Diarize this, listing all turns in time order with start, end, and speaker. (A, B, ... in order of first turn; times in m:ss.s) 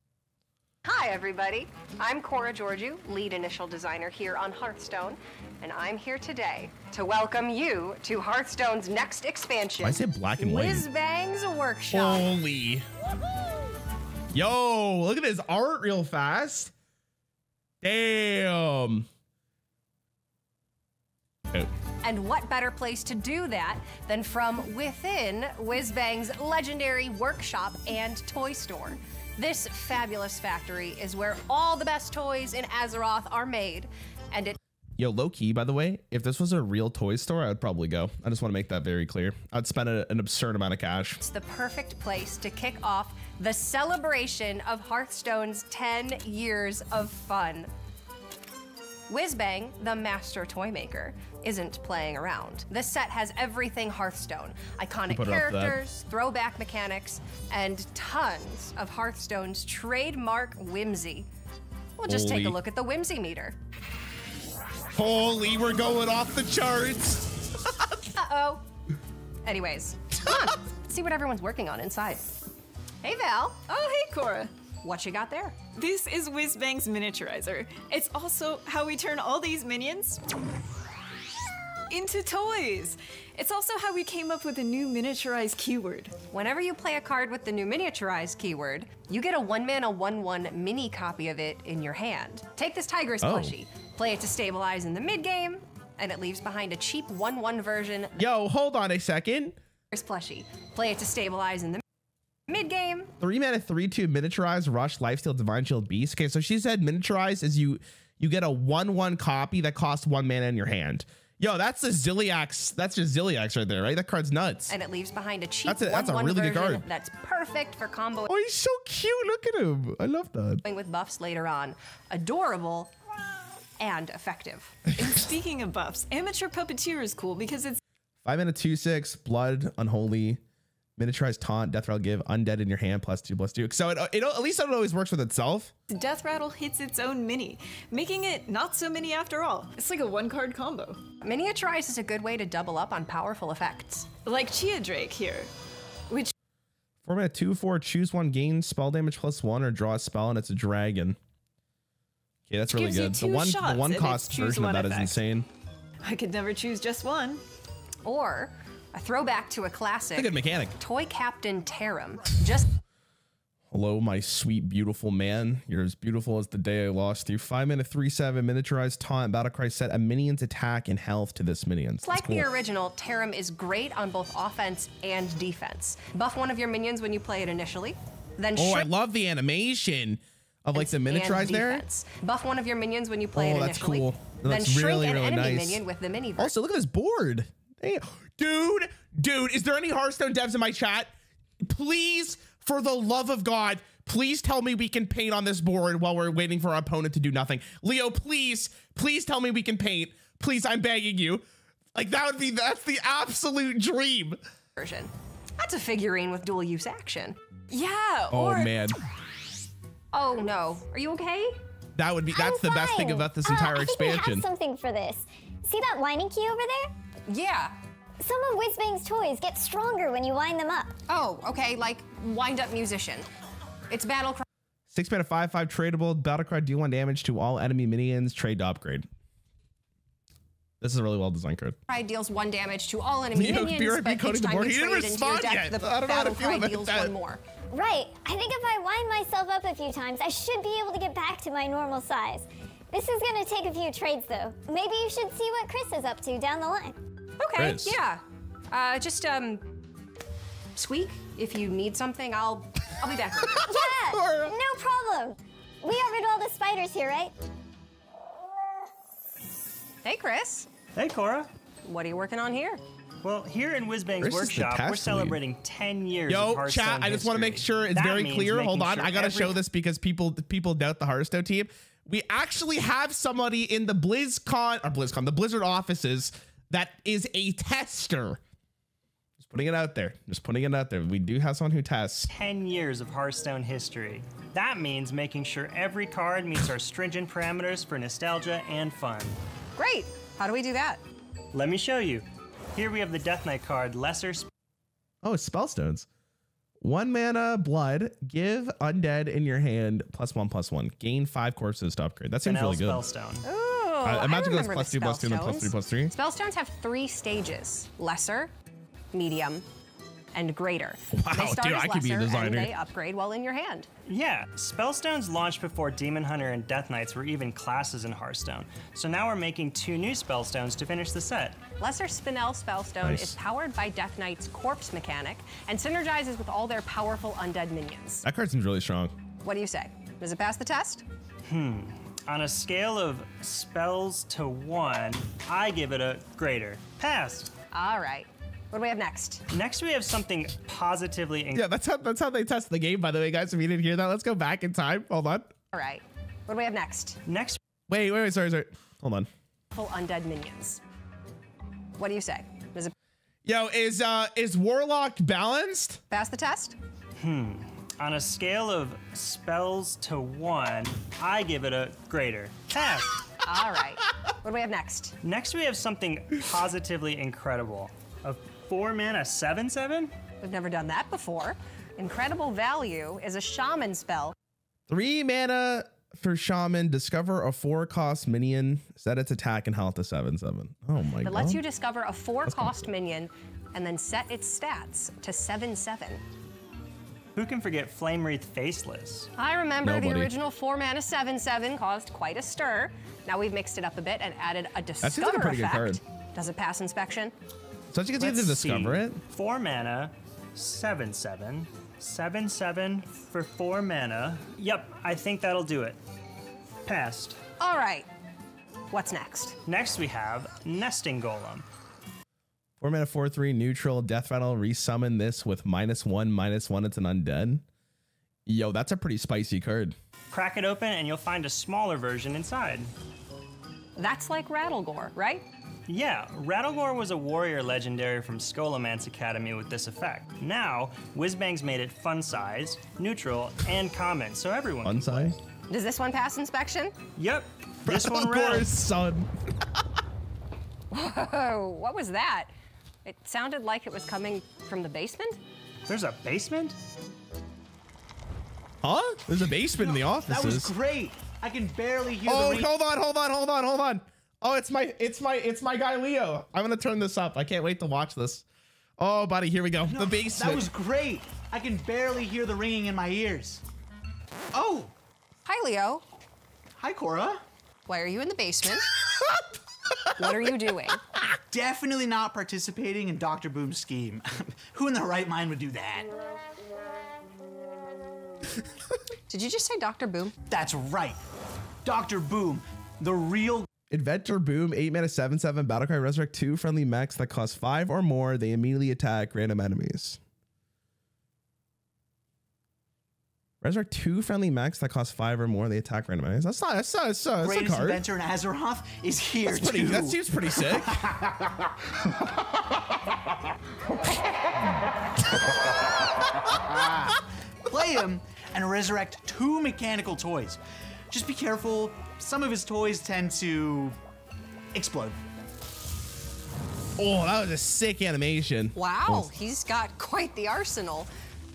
0:00.8-0:12.3 A
0:09.8-0:10.9 B
0:11.9-0:12.9 B
0:14.3-0:16.7 B
0:17.8-0:19.1 B
0:22.0-0:34.6 A
0:35.0-0:41.2 B
0:41.2-0:47.7 A
0:49.1-1:01.3 A
0:55.1-0:55.8 B
1:02.0-1:03.6 A
1:02.1-1:02.6 B
1:04.9-1:08.1 B
1:08.2-1:08.6 A
1:09.4-1:12.2 A
1:13.0-1:13.7 A
1:13.7-1:14.5 C
1:14.8-1:15.6 A
1:15.8-1:20.2 C
1:21.9-1:26.2 C
1:26.3-1:38.2 A
1:33.2-1:33.6 B
1:38.2-1:39.6 B
1:39.9-1:41.8 A
1:42.5-1:43.1 A
1:43.2-1:54.8 B
1:54.7-1:58.3 A
1:55.7-1:56.9 B
1:58.3-2:00.6 B
2:00.6-2:02.9 A
2:03.8-2:04.9 A
2:04.9-2:07.8 C
2:08.2-2:10.4 B
2:11.0-2:15.7 B
2:15.9-2:21.0 C
2:21.2-2:24.1 A
2:24.3-2:25.5 C
2:27.0-2:31.2 B
2:32.5-2:35.5 B
2:32.7-2:35.2 C
2:36.0-2:37.4 C
2:38.0-2:42.7 A
2:40.1-2:40.8 B
2:43.7-2:52.5 B
2:52.0-2:58.9 A
2:58.6-3:01.8 B
3:00.8-3:06.5 A
3:03.4-3:05.8 B
3:06.4-3:11.1 B
3:11.6-3:21.4 B
3:22.0-3:24.4 B
3:24.8-3:27.4 A
3:27.7-3:28.7 C
3:28.3-3:29.0 B
3:30.1-3:31.6 A
3:32.0-3:34.5 B
3:32.3-3:36.9 D
3:37.3-3:37.7 A
3:38.2-3:41.0 D
3:41.1-3:43.2 A
3:43.9-3:44.4 A
3:44.9-3:49.1 B
3:50.8-3:51.8 B
3:51.9-3:57.4 A
3:53.3-3:57.1 B
3:57.7-4:07.0 D
4:07.4-4:09.8 A
4:07.6-4:08.0 B
4:10.8-4:13.7 A
4:13.6-4:14.5 B
4:13.6-4:17.3 D
4:20.0-4:20.7 A
4:21.0-4:21.5 E
4:21.9-4:22.8 A
4:23.2-4:29.6 E
4:24.2-4:25.4 B
4:26.3-4:38.4 B
4:39.4-4:42.3 B
4:42.3-4:49.4 E
4:49.8-4:51.0 A
4:51.5-4:54.5 E
4:55.2-4:56.1 B
4:56.8-5:03.0 B
5:02.4-5:03.4 E
5:03.4-5:08.5 A
5:04.0-5:06.1 B
5:09.1-5:09.6 A
5:10.3-5:13.9 A
5:11.1-5:12.7 B
5:14.1-5:21.6 E
5:21.8-5:28.2 A
5:23.0-5:23.4 B
5:28.2-5:29.1 B
5:29.4-5:31.0 A
5:31.5-5:37.5 E
5:37.7-5:39.5 A
5:39.5-5:41.6 E
5:41.5-5:45.5 B
5:45.7-5:47.2 A
5:47.3-5:47.6 E
5:47.9-5:49.3 B
5:49.7-5:50.8 A
5:52.0-5:52.9 A
5:53.4-5:56.0 B
5:56.1-5:56.8 A
5:57.2-6:03.2 E
6:03.4-6:05.2 A
6:05.2-6:10.1 E
6:10.4-6:14.3 A
6:14.9-6:21.6 B
6:21.2-6:26.2 A
6:22.5-6:22.9 B
6:27.4-6:29.3 E
6:29.4-6:37.3 A
6:29.8-6:30.3 B
6:35.0-6:36.0 B
6:37.9-6:39.2 B
6:38.2-6:46.0 E
6:46.9-6:47.4 E
6:47.6-6:48.1 A
6:48.9-6:49.6 A
6:49.7-6:51.7 E
6:52.8-6:57.6 B
6:58.5-7:00.0 B
7:00.3-7:02.9 E
7:04.0-7:05.4 A
7:05.9-7:15.4 E
7:14.8-7:15.4 B
7:15.7-7:16.9 A
7:17.2-7:18.7 E
7:17.8-7:19.3 B
7:20.9-7:22.5 A
7:23.0-7:25.4 A
7:25.9-7:26.8 E
7:28.8-7:30.7 B
7:29.8-7:32.7 F
7:32.3-7:38.4 B
7:39.0-7:40.7 B
7:39.9-7:43.6 F
7:44.5-7:44.9 F
7:45.4-7:46.0 A
7:46.8-7:47.4 F
7:47.9-7:48.9 A
7:50.2-7:51.0 A
7:51.5-7:56.1 F
7:59.3-8:00.3 A
8:00.5-8:01.2 F
8:01.8-8:03.7 F
8:03.9-8:10.2 B
8:13.6-8:18.0 B
8:17.4-8:21.6 F
8:19.5-8:21.0 B
8:26.5-8:30.6 F
8:31.1-8:34.0 F
8:34.7-8:35.2 F
8:37.0-8:39.3 B
8:38.8-8:41.1 A